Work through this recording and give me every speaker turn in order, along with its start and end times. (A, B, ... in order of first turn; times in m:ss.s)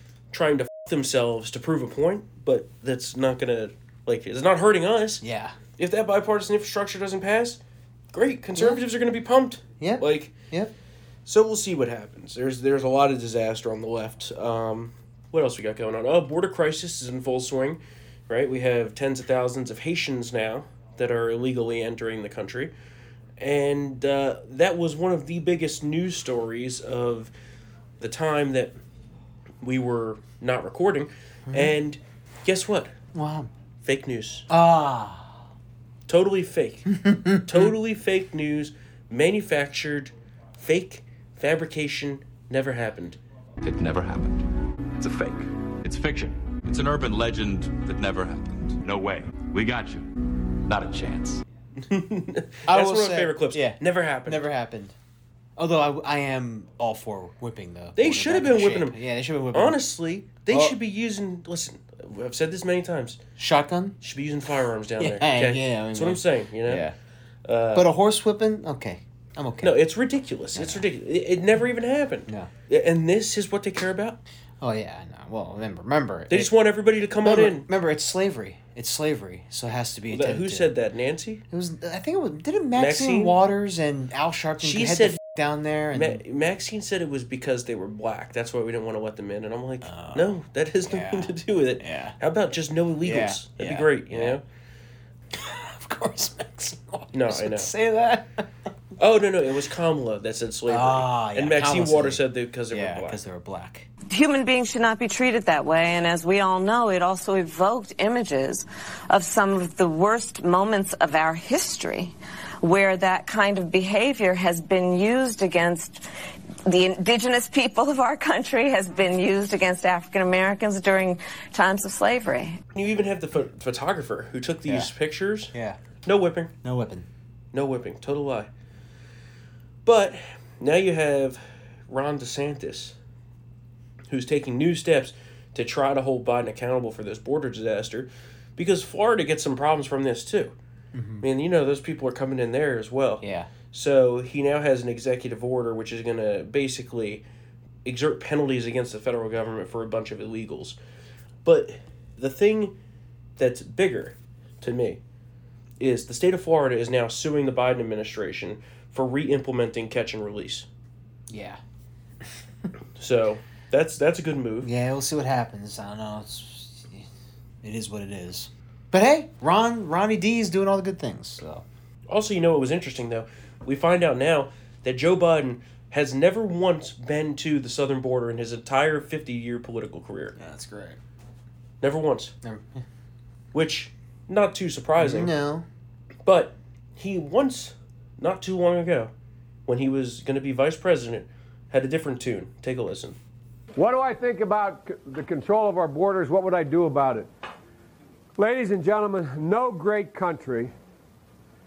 0:00.3-0:05.2 A
0:05.2-0:05.6 B
0:05.8-0:07.6 A
0:08.1-0:10.3 A
0:08.5-0:08.8 B
0:09.8-0:10.7 B
0:11.2-0:22.7 A
0:23.4-0:27.3 A
0:28.0-0:28.8 A
0:29.6-0:32.9 A
0:31.5-0:31.7 B
0:33.1-0:33.5 B
0:33.8-0:34.5 A
0:34.5-0:35.4 B
0:36.1-0:43.2 A
0:37.0-0:37.6 B
0:43.6-0:51.4 C
0:51.8-0:54.4 A
0:52.7-0:54.9 B
0:55.6-0:59.8 B
0:58.0-0:59.0 A
0:59.5-1:03.2 A
1:00.5-1:00.8 B
1:03.4-1:04.0 B
1:04.0-1:06.8 A
1:05.0-1:06.9 B
1:07.4-1:07.9 A
1:07.7-1:09.8 B
1:09.6-1:14.2 A
1:10.5-1:10.9 B
1:14.6-1:16.5 B
1:16.3-1:17.7 A
1:17.2-1:20.7 B
1:20.1-1:21.4 A
1:21.5-1:26.2 B
1:22.7-1:23.4 A
1:24.6-1:25.2 A
1:25.9-1:34.4 A
1:29.8-1:32.2 B
1:33.0-1:34.4 B
1:35.3-1:38.4 B
1:37.1-1:37.7 A
1:39.0-1:43.2 A
1:40.7-1:43.9 B
1:44.1-1:56.0 D
1:56.6-2:02.6 D
2:02.7-2:05.5 A
2:04.6-2:04.9 B
2:05.5-2:05.8 B
2:06.0-2:06.5 A
2:06.6-2:07.1 B
2:07.5-2:08.5 A
2:09.8-2:13.0 A
2:14.1-2:20.6 A
2:20.9-2:21.2 B
2:21.2-2:27.2 A
2:23.2-2:23.5 B
2:27.8-2:30.8 A
2:31.4-2:32.7 A
2:33.4-2:35.0 A
2:35.8-2:40.7 A
2:41.3-2:41.6 B
2:43.0-2:44.7 A
2:44.6-2:47.1 B
2:47.6-2:51.6 B
2:52.1-3:00.3 A
3:00.4-3:01.0 B
3:01.8-3:02.3 A
3:02.4-3:02.8 B
3:03.5-3:05.3 A
3:05.0-3:05.6 B
3:06.2-3:09.1 A
3:09.7-3:13.2 A
3:13.8-3:17.3 E
3:18.4-3:20.7 E